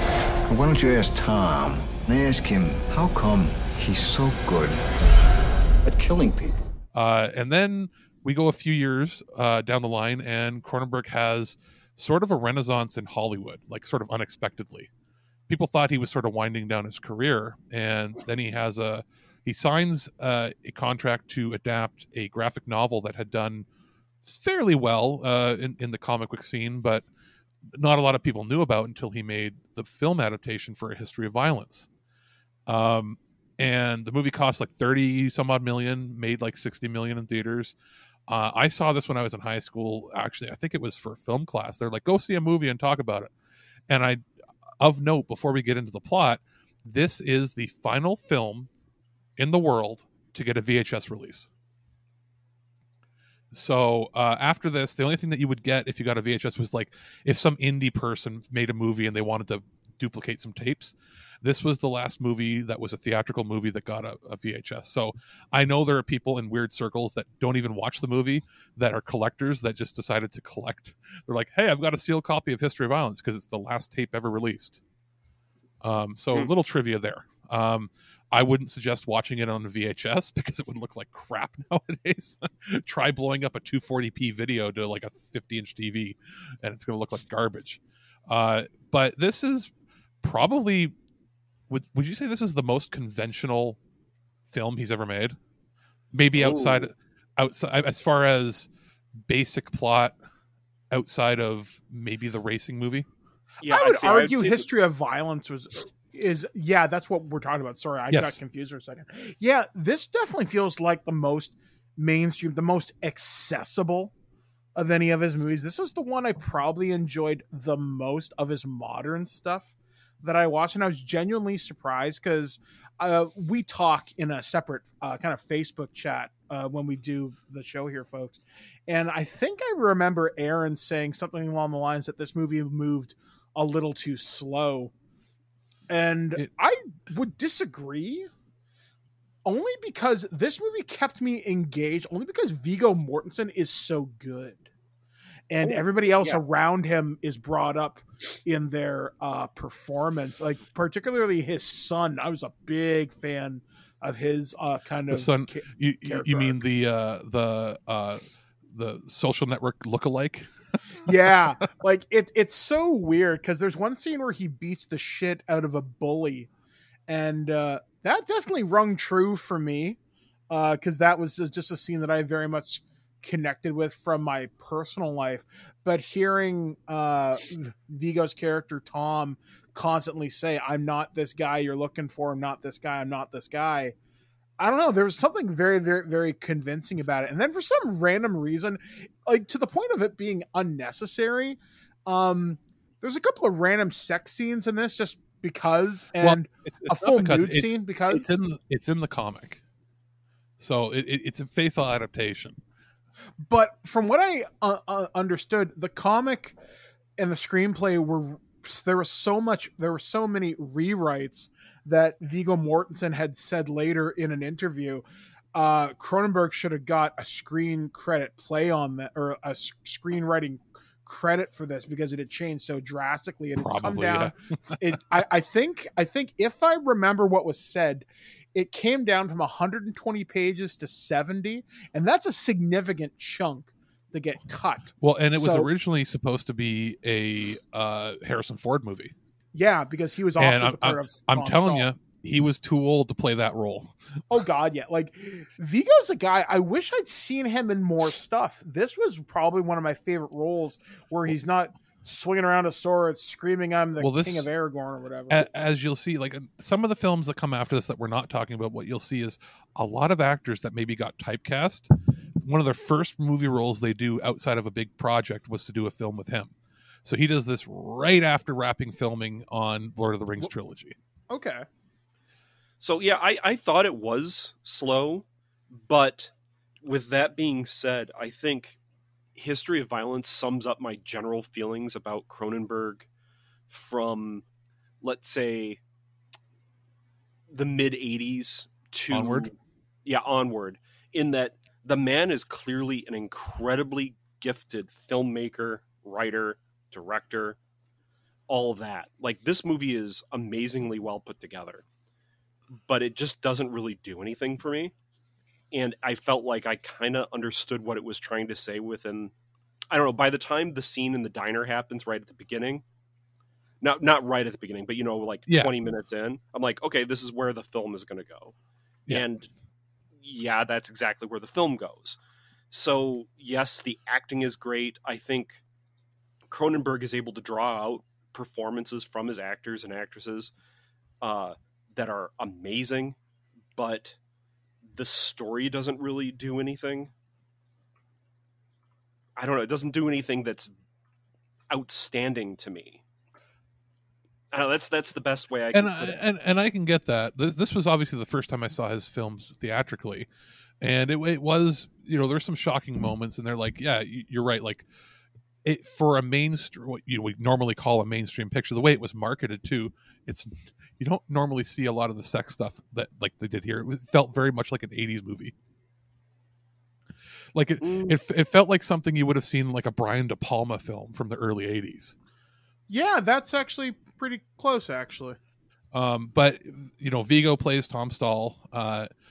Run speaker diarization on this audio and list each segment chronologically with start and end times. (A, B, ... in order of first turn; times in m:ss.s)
0:00.5-0:04.8 A
0:05.8-0:06.6 A
0:06.9-0:14.9 B
0:15.5-0:23.6 B
0:24.2-0:27.0 B
0:27.7-0:31.9 B
0:32.6-0:37.7 B
0:38.3-0:43.3 B
0:43.9-0:44.2 B
0:44.8-0:48.7 B
0:49.4-0:51.5 B
0:53.5-1:14.8 B
1:15.8-1:29.7 B
1:30.2-1:30.9 B
1:31.7-1:33.8 B
1:34.5-1:35.4 B
1:36.1-1:38.7 B
1:36.4-1:36.9 C
1:39.3-1:40.2 B
1:40.9-1:43.1 B
1:43.6-1:44.7 C
1:43.6-1:54.1 D
1:48.1-1:48.4 B
1:54.7-2:14.9 D
2:15.9-2:18.3 D
2:19.4-2:24.6 D
2:25.5-2:36.6 D
2:25.6-2:26.4 C
2:35.1-2:40.5 B
2:41.0-2:46.5 D
2:47.1-2:50.0 D
2:50.5-3:03.9 D
3:04.6-3:18.3 D
3:16.2-3:19.6 B
3:20.6-3:22.6 B
3:23.4-3:26.6 D
3:27.2-3:55.7 D
3:43.6-3:44.7 B
3:55.0-3:59.1 B
3:59.5-4:01.9 D
4:00.4-4:03.9 B
4:04.3-4:15.5 D
4:14.0-4:14.5 B
4:15.3-4:21.9 B
4:22.4-4:26.5 B
4:27.0-4:30.9 B
4:31.3-4:31.6 D
4:32.8-4:38.8 C
4:39.4-4:43.1 C
4:43.7-4:44.4 C
4:45.0-4:45.8 C
4:47.5-4:49.5 C
4:49.1-4:49.5 B
4:50.0-4:57.6 C
4:58.5-5:01.8 C
5:02.8-5:04.9 C
5:05.7-5:09.3 C
5:09.9-5:12.8 C
5:13.8-5:18.5 C
5:15.5-5:15.7 B
5:19.1-5:19.5 C
5:20.2-5:22.2 C
5:22.7-5:25.6 C
5:26.5-5:30.5 C
5:31.2-5:33.2 C
5:33.7-5:34.2 C
5:34.9-5:37.1 C
5:39.4-5:40.7 C
5:41.7-5:43.0 C
5:44.5-5:46.2 C
5:45.7-5:50.3 B
5:50.8-5:54.8 B
5:55.6-6:05.5 B
6:07.5-6:12.1 B
6:07.8-6:08.2 C
6:12.9-6:15.4 D
6:15.9-6:19.1 B